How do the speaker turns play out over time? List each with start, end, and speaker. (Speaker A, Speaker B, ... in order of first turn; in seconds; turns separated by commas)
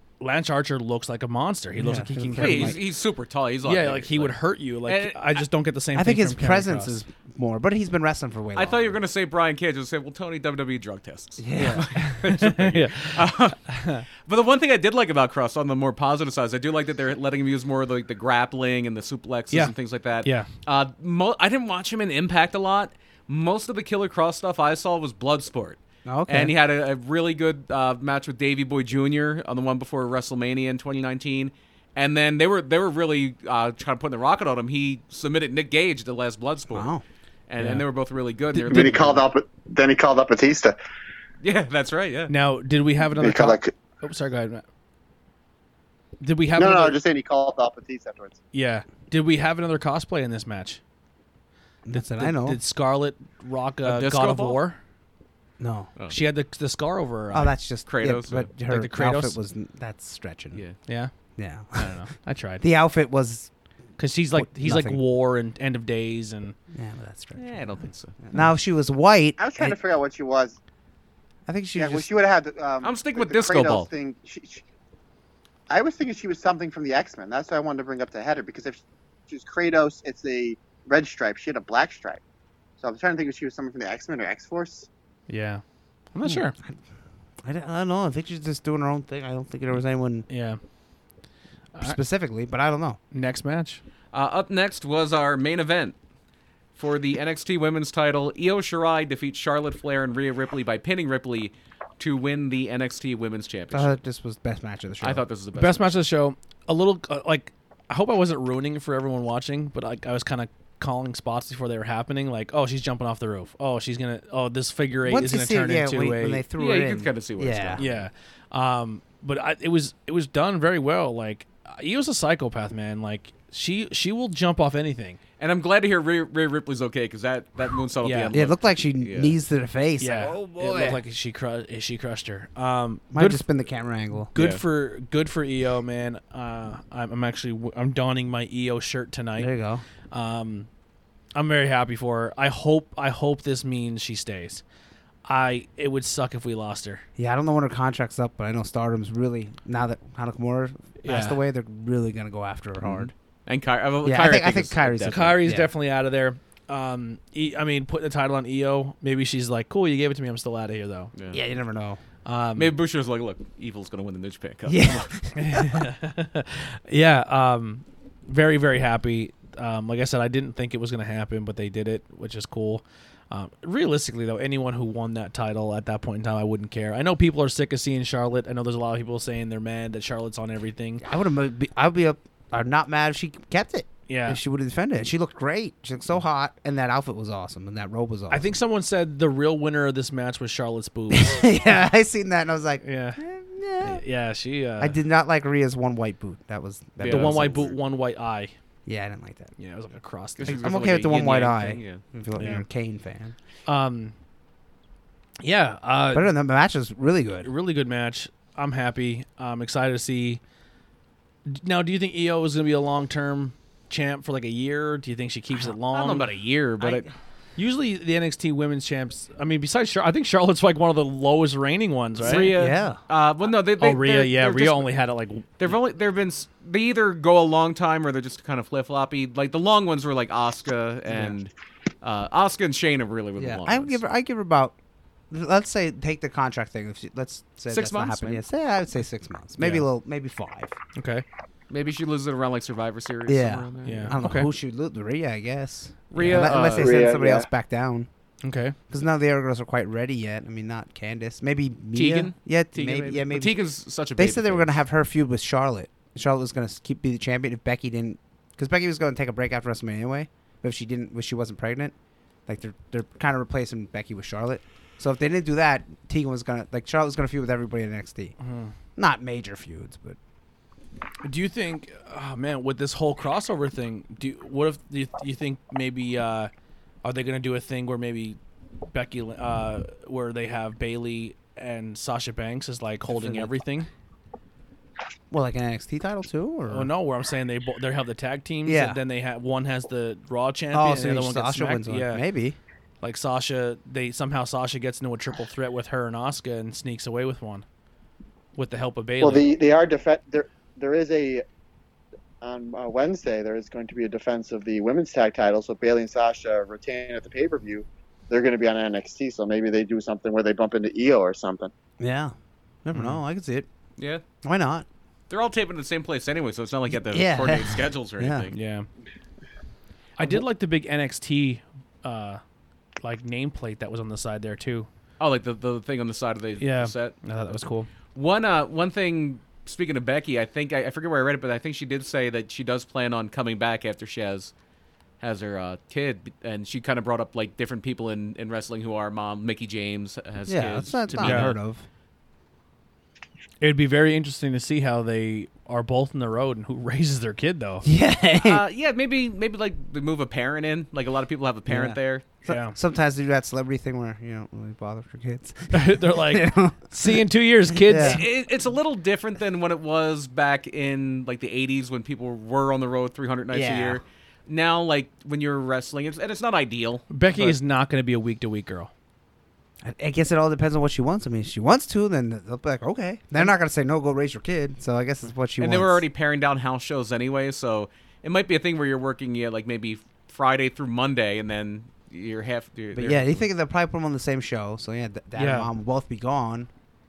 Speaker A: 0.2-2.8, Speaker B: 1.8-2.8, Speaker C: 2.4-5.4, Speaker A: 3.6-7.0, Speaker B: 6.0-9.0, Speaker C: 8.6-36.9, Speaker B: 11.4-11.9, Speaker A: 11.6-14.0, Speaker A: 19.5-20.5, Speaker B: 26.1-26.5, Speaker B: 36.7-37.0, Speaker C: 37.5-39.2, Speaker A: 37.6-37.8, Speaker A: 38.6-38.9, Speaker D: 38.7-40.8, Speaker C: 41.4-42.3, Speaker A: 42.3-44.6, Speaker D: 43.2-43.7, Speaker A: 46.2-47.0, Speaker D: 46.6-48.4, Speaker A: 48.5-50.8, Speaker B: 51.9-52.6, Speaker A: 51.9-54.8, Speaker C: 53.9-54.6, Speaker B: 55.6-55.9, Speaker A: 56.1-57.6, Speaker B: 57.3-60.6, Speaker C: 57.9-58.5, Speaker A: 58.6-59.4, Speaker B: 61.4-62.0, Speaker A: 61.8-62.6, Speaker B: 62.6-63.5, Speaker A: 64.0-66.5, Speaker B: 64.3-65.0, Speaker B: 66.7-67.6, Speaker C: 67.4-68.2, Speaker B: 68.2-69.8, Speaker D: 69.4-70.6, Speaker B: 71.5-72.1, Speaker D: 71.8-74.6, Speaker C: 72.8-73.9, Speaker D: 75.7-82.2, Speaker D: 82.8-84.9, Speaker A: 85.3-86.5, Speaker B: 86.2-86.8, Speaker B: 87.4-90.3, Speaker A: 90.3-90.6, Speaker A: 91.7-92.0, Speaker B: 91.8-93.0, Speaker A: 93.1-93.8, Speaker C: 94.1-96.0, Speaker C: 96.8-104.0, Speaker B: 103.7-105.2, Speaker C: 105.0-106.0, Speaker A: 105.5-116.4, Speaker B: 115.0-117.8, Speaker C: 116.6-118.0, Speaker A: 117.8-125.2, Speaker C: 125.4-129.3, Speaker A: 128.0-128.3, Speaker B: 128.3-130.5, Speaker A: 130.0-133.4, Speaker C: 130.2-131.0, Speaker B: 133.1-134.3, Speaker A: 134.3-139.5, Speaker C: 134.3-134.6, Speaker B: 139.4-139.8, Speaker A: 140.1-140.7, Speaker A: 141.3-144.6, Speaker A: 145.3-147.0, Speaker B: 147.2-153.1, Speaker A: 151.0-151.4, Speaker C: 152.8-155.3, Speaker B: 154.0-155.7, Speaker A: 155.1-161.1, Speaker B: 161.3-162.0, Speaker A: 162.2-162.7, Speaker C: 162.6-165.1, Speaker B: 164.7-165.8, Speaker A: 165.3-181.1, Speaker B: 181.0-188.5, Speaker A: 184.1-184.4, Speaker A: 188.3-191.4, Speaker B: 191.1-194.0, Speaker A: 192.8-193.2, Speaker A: 193.8-195.0, Speaker B: 194.8-197.7, Speaker C: 197.0-197.7, Speaker A: 197.1-198.5, Speaker B: 198.9-199.5, Speaker A: 199.6-200.7, Speaker C: 200.4-202.0, Speaker B: 200.4-203.3, Speaker A: 202.4-202.6, Speaker A: 203.7-204.1, Speaker A: 205.4-206.3, Speaker B: 206.1-207.5, Speaker A: 207.4-210.4, Speaker A: 211.5-216.3, Speaker C: 215.9-217.1, Speaker A: 217.6-222.5, Speaker C: 222.2-224.9, Speaker B: 222.5-223.0, Speaker A: 223.8-225.6, Speaker C: 225.6-231.5, Speaker B: 231.1-231.4, Speaker C: 232.0-234.0, Speaker B: 233.4-234.8, Speaker B: 235.3-240.8, Speaker C: 237.7-238.4, Speaker A: 239.6-239.9, Speaker A: 240.9-241.2, Speaker C: 241.7-244.2, Speaker B: 243.3-248.1, Speaker A: 243.8-244.5, Speaker C: 246.1-247.0, Speaker D: 246.4-247.5, Speaker A: 248.4-248.8, Speaker B: 248.9-253.6, Speaker C: 251.9-254.8, Speaker B: 254.2-261.9, Speaker B: 262.5-268.4, Speaker A: 268.4-268.7, Speaker B: 268.9-270.2, Speaker A: 271.2-276.5, Speaker A: 277.0-278.4, Speaker A: 278.9-283.9, Speaker B: 283.1-283.5, Speaker B: 285.3-286.9, Speaker A: 286.7-292.2, Speaker B: 288.7-289.0, Speaker B: 290.7-292.6, Speaker A: 293.0-297.6, Speaker A: 298.6-299.5, Speaker D: 299.2-301.4, Speaker D: 302.4-311.7, Speaker B: 312.0-312.3, Speaker B: 312.9-313.7, Speaker A: 312.9-313.2, Speaker C: 314.0-314.2, Speaker B: 314.4-314.9, Speaker C: 315.3-318.6, Speaker B: 316.9-318.5, Speaker A: 318.5-318.9, Speaker A: 320.2-322.4, Speaker A: 323.0-324.9, Speaker C: 325.2-327.2, Speaker A: 326.6-327.9, Speaker C: 328.1-334.5, Speaker C: 335.2-341.6, Speaker B: 340.5-341.9, Speaker A: 341.2-341.5, Speaker A: 343.6-347.9, Speaker B: 347.8-348.6, Speaker C: 348.4-352.2, Speaker B: 351.7-357.2, Speaker A: 352.4-352.8, Speaker A: 355.7-358.2, Speaker B: 357.7-358.2, Speaker C: 358.0-367.6, Speaker B: 363.5-364.0, Speaker A: 367.1-368.9, Speaker B: 369.8-376.0, Speaker C: 375.6-383.4, Speaker B: 382.9-386.7, Speaker A: 385.4-385.7